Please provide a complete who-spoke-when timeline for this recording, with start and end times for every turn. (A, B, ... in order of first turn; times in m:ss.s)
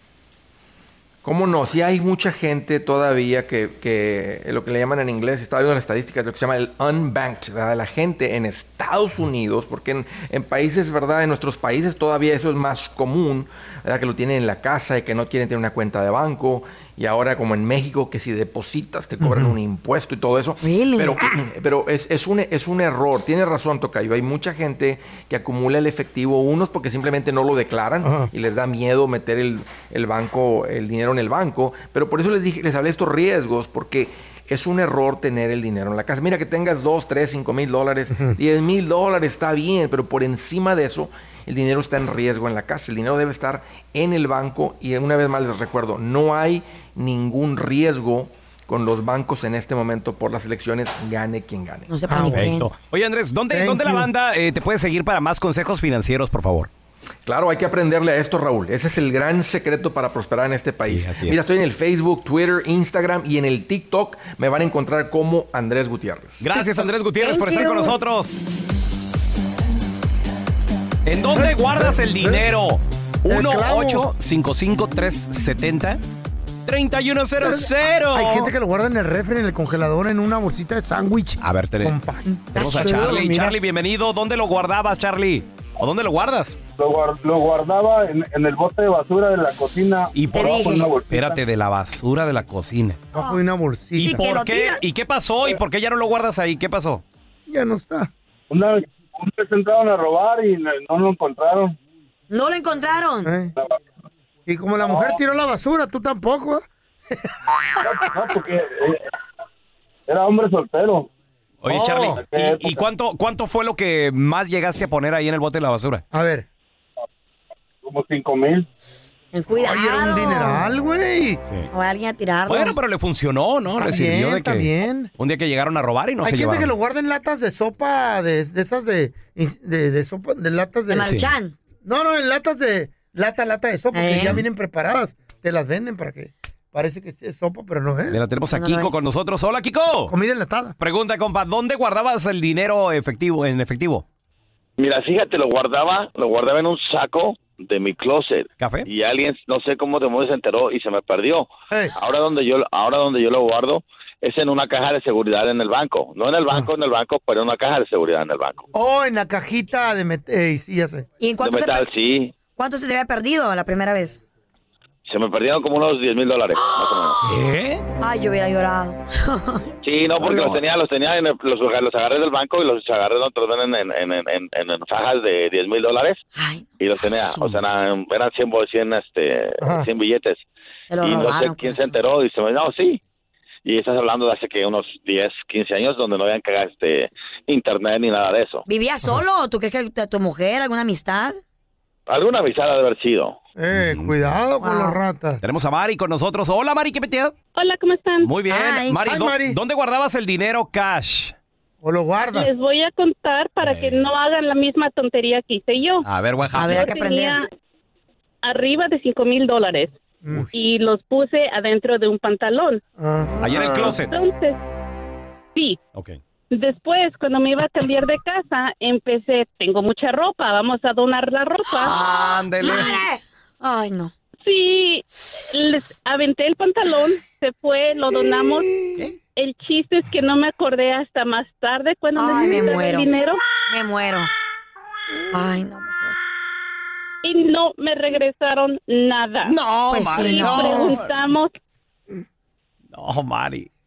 0:01.2-0:51.9 A
0:19.2-0:19.5 B
0:20.6-0:21.2 C
0:28.0-0:28.3 B
0:51.9-0:52.7 C
0:52.1-0:52.5 B
0:52.3-0:56.7 D
0:53.5-0:54.1 B
0:57.2-1:06.4 A
1:00.8-1:01.5 D
1:06.4-1:08.4 D
1:07.2-1:08.0 C
1:11.0-1:16.0 D
1:11.3-1:12.4 B
1:13.2-1:14.1 B
1:16.6-1:18.5 D
1:17.4-1:23.6 B
1:21.4-1:22.0 D
1:22.5-1:26.6 D
1:22.5-1:23.2 C
1:26.8-1:31.4 E
1:30.1-1:33.0 D
1:30.3-1:30.9 C
1:33.1-1:34.2 B
1:33.2-1:33.4 C
1:34.0-1:37.0 D
1:34.0-1:34.8 C
1:37.5-1:38.1 B
1:38.5-1:41.7 E
1:42.3-1:43.3 C
1:43.2-1:43.5 B
1:44.4-1:47.8 B
1:44.8-1:45.1 E
1:47.8-1:49.0 E
1:50.1-1:51.1 E
1:51.6-1:56.0 D
1:51.7-1:52.2 B
1:52.2-1:52.8 E
1:56.1-1:56.4 B
1:57.8-1:58.6 E
1:59.3-2:00.6 C
1:59.5-2:01.4 B
2:01.4-2:01.7 D
2:01.7-2:02.8 C
2:02.5-2:06.7 D
2:03.7-2:05.1 B
2:06.2-2:11.1 B
2:10.9-2:11.6 C
2:11.0-2:11.3 D
2:11.8-2:18.2 B
2:13.9-2:14.4 C
2:18.1-2:20.1 D
2:18.5-2:18.9 C
2:20.1-2:20.7 B
2:20.8-2:24.0 D
2:24.8-2:38.6 F
2:28.6-2:28.9 D
2:38.7-2:41.1 B
2:41.2-2:41.9 C
2:41.4-2:42.4 F
2:42.5-2:44.2 C
2:45.1-2:47.2 F
2:46.5-2:47.2 C
2:47.2-2:47.8 D
2:48.0-2:50.6 C
2:49.8-2:56.2 F
2:56.3-2:57.6 C
2:56.8-3:00.4 F
2:59.6-2:59.9 B
3:00.9-3:01.9 C
3:01.0-3:03.0 F
3:03.6-3:08.6 F
3:08.6-3:11.4 C
3:12.1-3:13.4 F
3:13.6-3:15.4 B
3:13.7-3:14.4 D
3:14.6-3:15.0 C
3:15.4-3:17.3 D
3:17.6-3:18.3 G
3:18.2-3:21.3 D
3:18.5-3:19.0 C
3:19.0-3:19.6 B
3:21.8-3:22.5 B
3:22.3-3:26.0 G
3:23.6-3:24.0 D
3:26.0-3:26.9 D
3:26.5-3:27.4 C
3:26.6-3:27.5 G
3:28.4-3:29.9 G
3:30.5-3:32.8 G
3:33.0-3:34.0 B
3:33.4-3:34.1 D
3:34.0-3:34.6 G
3:35.5-3:35.8 G
3:36.5-3:42.1 G
3:41.7-3:44.1 C
3:41.8-3:43.0 D
3:44.4-3:48.7 G
3:49.4-3:53.4 G
3:52.1-3:53.1 C
3:53.7-3:54.3 C
3:55.3-3:56.2 C
3:57.2-3:59.6 G
3:59.4-4:01.1 D
3:59.9-4:01.0 C
4:00.1-4:01.5 G
4:02.9-4:03.7 D